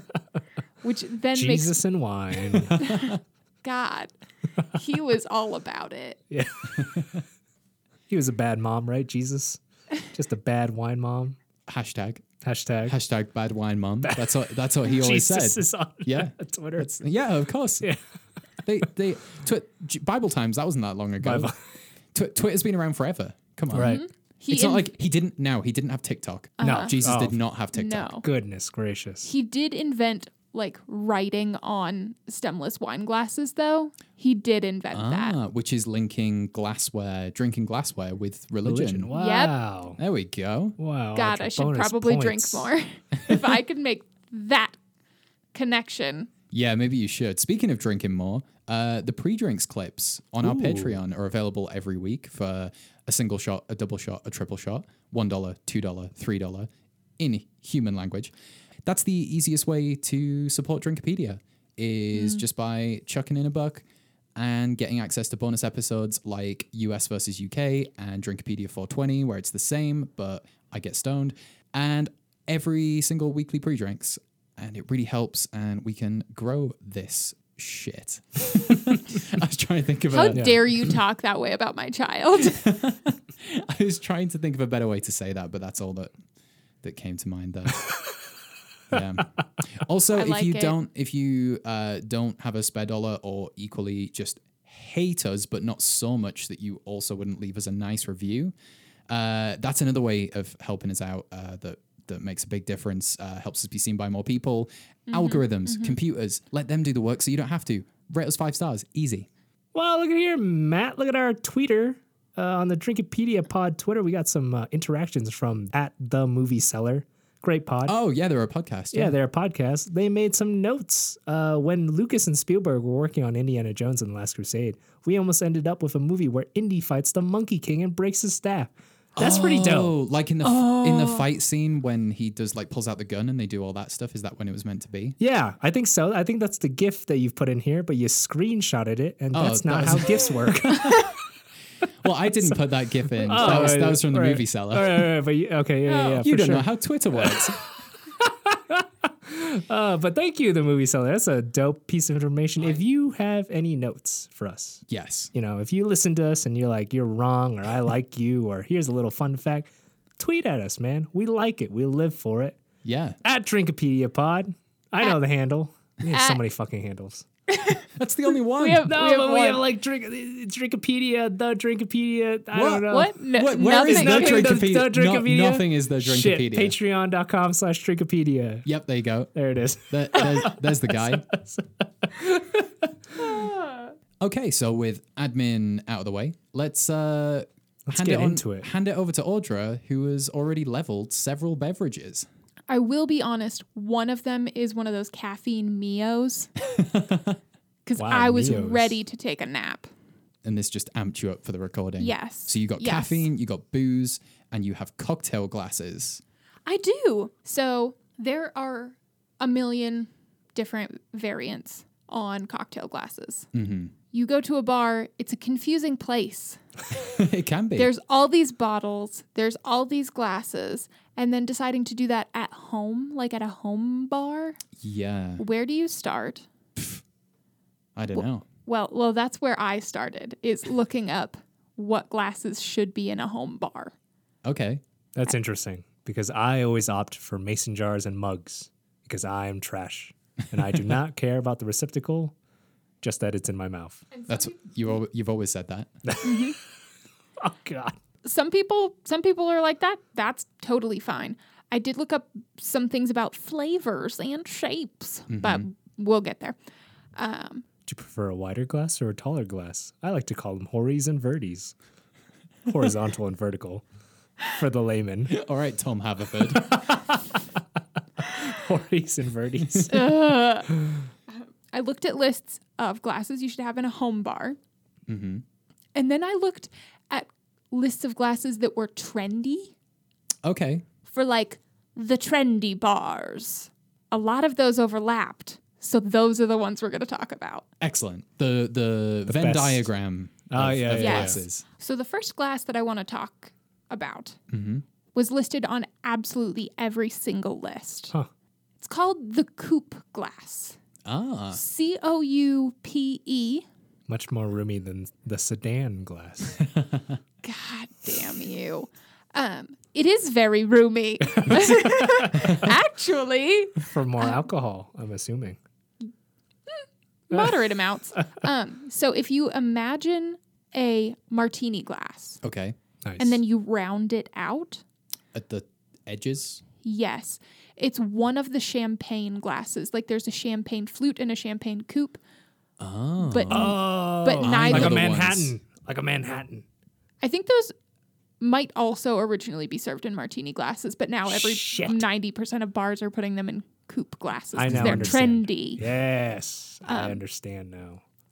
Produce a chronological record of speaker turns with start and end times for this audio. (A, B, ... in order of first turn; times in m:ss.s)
0:00.8-0:01.8 A
0:01.3-0:02.8 B
0:02.8-0:03.0 C
0:02.8-0:04.1 A
0:04.7-0:06.2 A
0:06.3-0:07.2 B
0:08.1-0:11.4 B
0:11.7-0:12.2 C
0:12.4-0:13.0 B
0:12.8-0:17.9 C
0:14.0-0:16.9 B
0:18.6-0:21.5 C
0:21.2-0:21.6 B
0:22.1-0:28.2 C
0:23.7-0:24.0 B
0:23.8-0:24.9 A
0:26.6-0:27.0 A
0:26.6-0:27.4 B
0:27.7-0:28.2 A
0:28.2-0:29.3 B
0:29.2-0:35.4 A
0:34.9-0:39.1 C
0:38.6-0:40.0 B
0:39.1-0:39.5 A
0:40.0-0:40.8 C
0:40.8-0:42.7 B
0:41.1-0:44.8 A
0:45.5-0:46.3 A
0:46.5-0:58.3 C
0:50.4-0:51.0 B
0:58.8-1:03.8 C
1:02.1-1:02.4 A
1:04.4-1:20.9 C
1:20.1-1:22.6 A
1:22.5-1:26.1 C
1:26.8-1:27.9 C
1:28.9-1:38.5 C
1:30.1-1:30.8 A
1:39.1-1:49.3 C
1:45.1-1:46.0 A
1:49.7-1:57.9 B
1:57.8-1:59.2 C
1:58.9-2:09.9 B
2:09.2-2:15.2 C
2:10.4-2:11.2 A
2:15.2-2:21.2 B
2:19.3-2:20.3 C
2:22.0-2:25.1 C
2:23.2-2:27.6 B
2:23.4-2:23.7 A
2:25.9-2:26.1 A
2:26.2-2:27.6 C
2:28.2-2:39.7 B
2:34.9-2:35.3 C
2:40.2-2:42.6 B
2:42.8-2:43.2 C
2:43.2-2:47.2 B
2:46.1-2:46.4 A
2:47.5-2:49.6 A
2:48.0-2:48.9 C
2:48.9-2:58.6 B
2:52.5-2:56.8 C
2:52.9-2:54.6 A
2:58.6-2:59.3 C
2:59.3-3:03.4 B
2:59.9-3:01.2 C
3:03.2-3:03.5 A
3:04.2-3:12.3 C
3:07.9-3:08.7 B
3:12.7-3:16.5 A
3:16.8-3:17.3 C
3:17.8-3:19.9 A
3:18.0-3:19.0 B
3:20.4-3:26.2 C
3:22.0-3:23.2 A
3:26.6-3:33.5 A
3:33.5-3:33.9 C
3:34.1-3:36.6 A
3:37.1-3:37.9 C
3:37.7-3:44.6 A
3:44.8-3:45.4 C
3:45.4-3:46.4 A
3:48.0-3:48.4 C
3:48.1-3:53.9 A
3:54.4-3:54.8 C
3:55.1-4:02.3 B
4:03.0-4:04.0 B
4:04.1-4:04.6 A
4:04.3-4:05.9 C
4:06.0-4:06.3 B
4:06.2-4:06.6 A
4:07.4-4:07.9 B
4:08.2-4:16.6 A
4:15.3-4:15.7 C
4:17.2-4:17.6 A
4:17.8-4:21.7 B
4:22.6-4:23.8 B
4:24.5-4:25.4 B
4:25.3-4:26.8 C
4:26.6-4:27.2 B
4:28.3-4:30.7 B
4:29.9-4:30.7 A
4:31.3-4:34.6 A
4:35.1-4:35.4 C
4:35.9-4:39.7 A
4:40.4-4:40.8 C
4:41.1-4:47.6 A
4:47.8-4:51.6 C
4:49.3-4:49.9 B
4:50.5-4:51.4 B
4:51.0-4:54.4 A
4:54.5-4:54.8 C
4:55.1-4:58.1 A
4:58.8-5:00.8 A
5:01.0-5:01.6 C
5:01.5-5:03.6 A
5:04.1-5:06.6 B
5:06.7-5:07.2 C
5:07.4-5:14.4 A
5:11.4-5:12.3 B
5:13.8-5:15.6 B
5:16.7-5:22.4 A
5:17.3-5:17.6 B
5:22.4-5:22.8 C
5:23.0-5:23.4 B
5:23.2-5:24.8 A
5:25.3-5:26.6 C
5:26.8-5:32.2 A
5:32.8-5:33.8 C
5:33.2-5:35.1 A
5:33.5-5:36.6 B
5:34.3-5:35.5 C
5:37.2-5:37.7 A
5:38.4-5:45.8 A
5:41.3-5:42.0 B
5:44.5-5:48.0 B
5:44.7-5:45.2 C
5:46.8-5:47.2 A